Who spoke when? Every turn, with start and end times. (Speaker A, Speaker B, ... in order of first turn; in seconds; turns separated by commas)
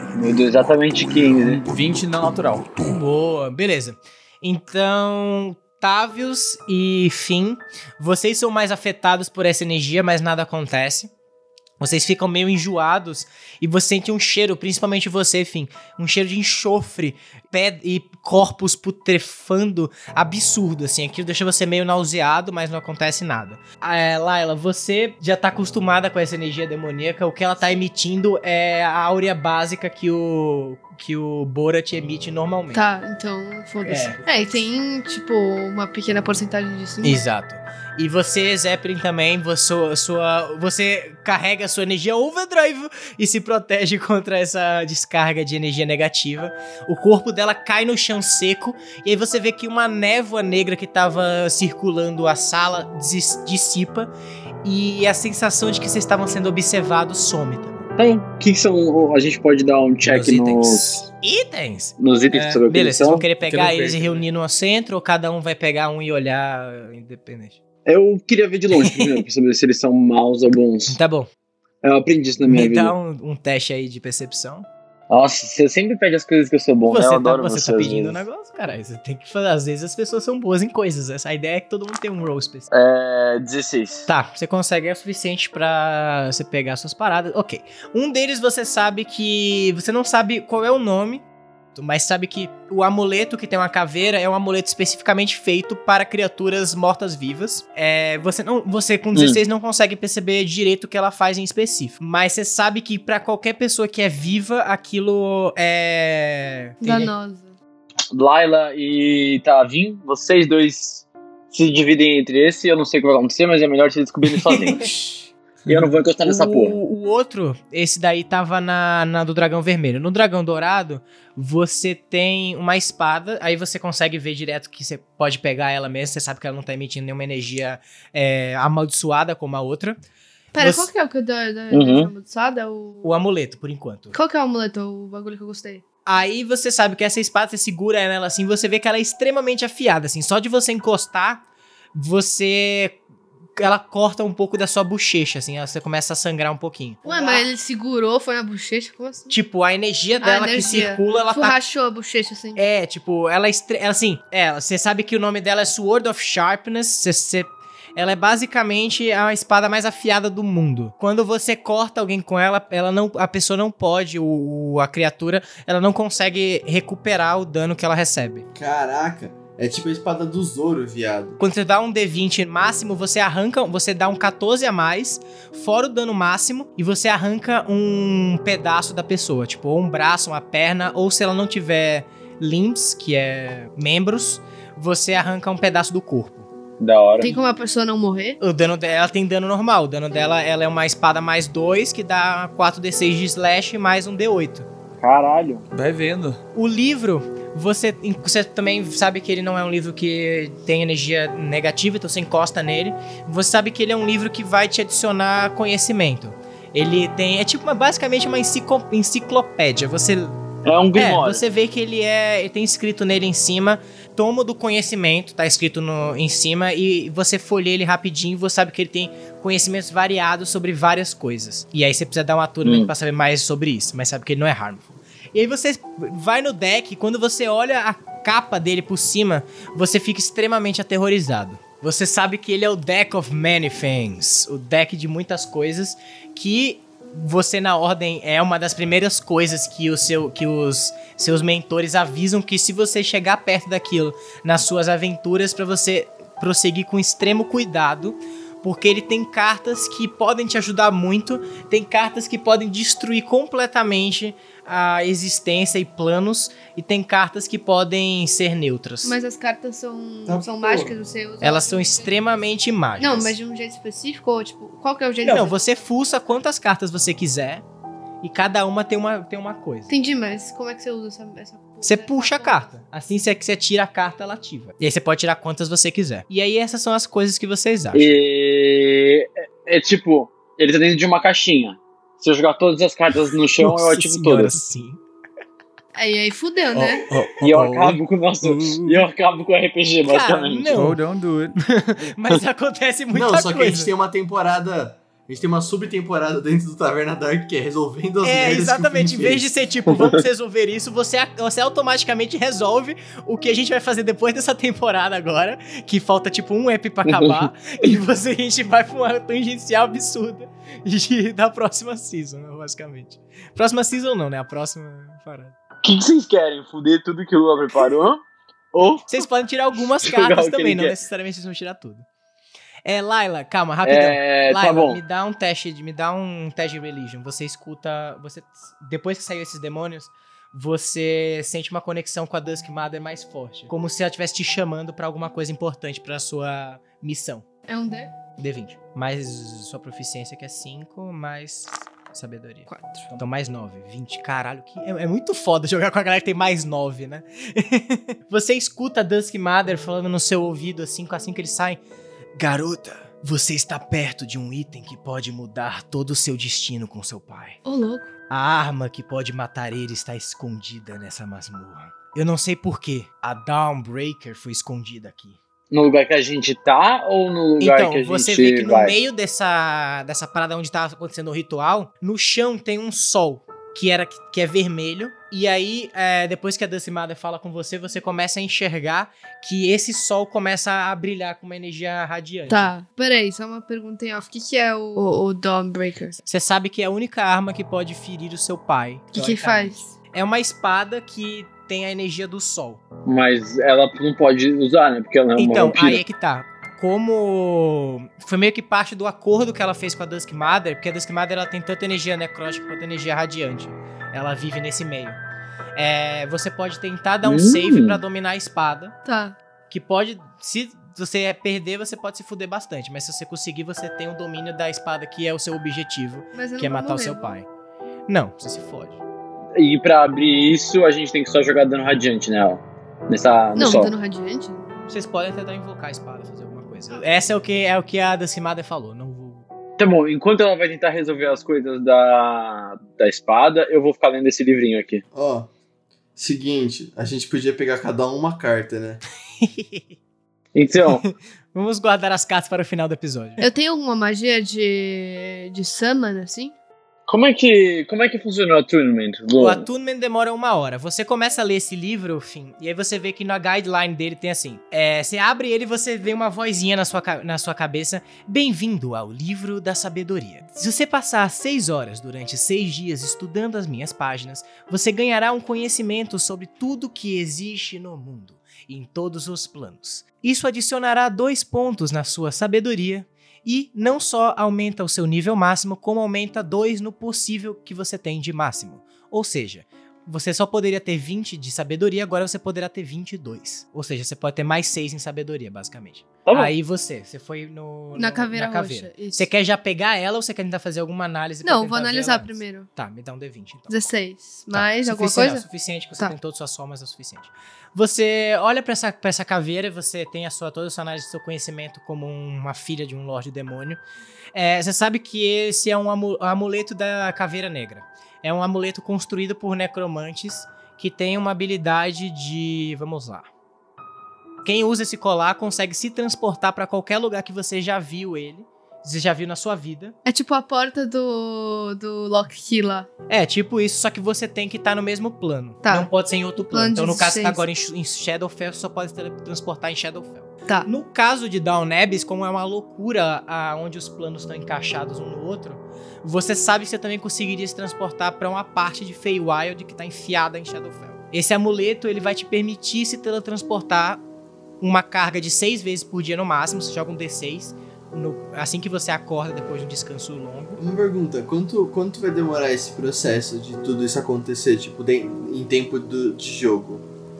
Speaker A: 0.1-1.7, Speaker B: 1.7-2.7, Speaker C: 2.8-11.1, Speaker C: 11.8-32.8, Speaker D: 32.7-37.2, Speaker C: 33.8-34.4, Speaker C: 37.0-54.1, Speaker C: 54.6-57.9, Speaker A: 58.0-61.1, Speaker C: 60.0-67.6, Speaker A: 62.0-63.3, Speaker B: 63.4-64.2, Speaker A: 67.8-71.0, Speaker C: 70.9-71.3, Speaker A: 71.8-72.9, Speaker C: 72.4-74.7, Speaker A: 75.1-78.2, Speaker C: 76.9-82.7, Speaker A: 82.7-84.1, Speaker C: 84.1-91.2, Speaker C: 91.7-107.1, Speaker A: 99.1-99.4, Speaker D: 106.8-107.6, Speaker A: 108.1-114.9, Speaker C: 114.5-115.1, Speaker B: 115.7-116.0, Speaker A: 115.7-116.8, Speaker C: 116.2-130.0, Speaker D: 130.5-133.1, Speaker C: 130.6-130.9, Speaker A: 131.7-132.1, Speaker C: 133.0-134.1, Speaker D: 134.1-135.8, Speaker C: 136.1-143.0, Speaker C: 143.6-147.4, Speaker D: 147.0-149.3, Speaker C: 149.3-151.6, Speaker D: 150.2-152.6, Speaker C: 152.6-168.4, Speaker E: 168.5-171.4, Speaker C: 171.4-186.5, Speaker A: 186.8-187.4, Speaker D: 187.2-188.4, Speaker C: 188.4-194.7, Speaker A: 195.0-195.6, Speaker B: 195.7-196.4, Speaker C: 196.5-210.4, Speaker A: 210.6-211.4, Speaker C: 210.9-259.2, Speaker A: 222.6-222.9, Speaker D: 259.0-262.1, Speaker E: 260.3-260.9, Speaker C: 261.4-263.3, Speaker D: 263.0-265.6, Speaker C: 265.2-267.6, Speaker C: 268.2-269.9, Speaker D: 269.9-272.7, Speaker C: 271.8-278.2, Speaker A: 277.9-284.6, Speaker C: 283.6-285.0, Speaker D: 285.9-287.0, Speaker C: 286.7-287.9, Speaker B: 287.1-287.7, Speaker A: 287.4-290.8, Speaker C: 288.4-289.0, Speaker C: 290.0-291.0, Speaker B: 290.7-291.6, Speaker C: 291.6-293.9, Speaker E: 293.1-299.4, Speaker C: 298.2-315.5, Speaker A: 307.1-307.9, Speaker A: 315.8-319.3, Speaker C: 319.1-322.0, Speaker A: 319.9-320.9, Speaker C: 322.8-337.4, Speaker A: 323.8-325.0, Speaker D: 337.7-338.1, Speaker C: 338.4-351.8, Speaker D: 342.7-343.1, Speaker C: 352.4-357.6, Speaker D: 357.6-358.1, Speaker C: 358.3-365.4, Speaker A: 365.7-368.9, Speaker C: 367.6-382.7, Speaker D: 382.5-386.2, Speaker C: 386.2-392.8, Speaker D: 389.1-389.9, Speaker A: 393.1-396.0, Speaker C: 395.4-405.2, Speaker C: 405.8-408.9, Speaker A: 407.2-408.0, Speaker D: 409.0-409.4, Speaker C: 409.7-417.5, Speaker D: 416.3-417.4, Speaker C: 418.1-419.0, Speaker A: 419.5-423.9, Speaker D: 423.6-424.6, Speaker C: 424.9-429.4, Speaker A: 429.8-435.0, Speaker E: 435.1-435.5, Speaker E: 436.1-439.0, Speaker C: 439.4-440.0, Speaker A: 440.5-441.0, Speaker C: 440.8-443.4, Speaker D: 443.4-446.6, Speaker A: 447.1-449.6, Speaker C: 449.4-493.8, Speaker A: 486.2-486.5, Speaker D: 488.0-489.3, Speaker D: 491.4-492.7, Speaker D: 493.7-495.4, Speaker C: 494.5-503.8, Speaker C: 504.3-513.3, Speaker C: 514.4-520.0, Speaker D: 520.0-522.9, Speaker C: 523.1-544.0, Speaker D: 525.6-525.9, Speaker D: 526.5-527.4, Speaker C: 544.6-550.6, Speaker E: 550.6-556.9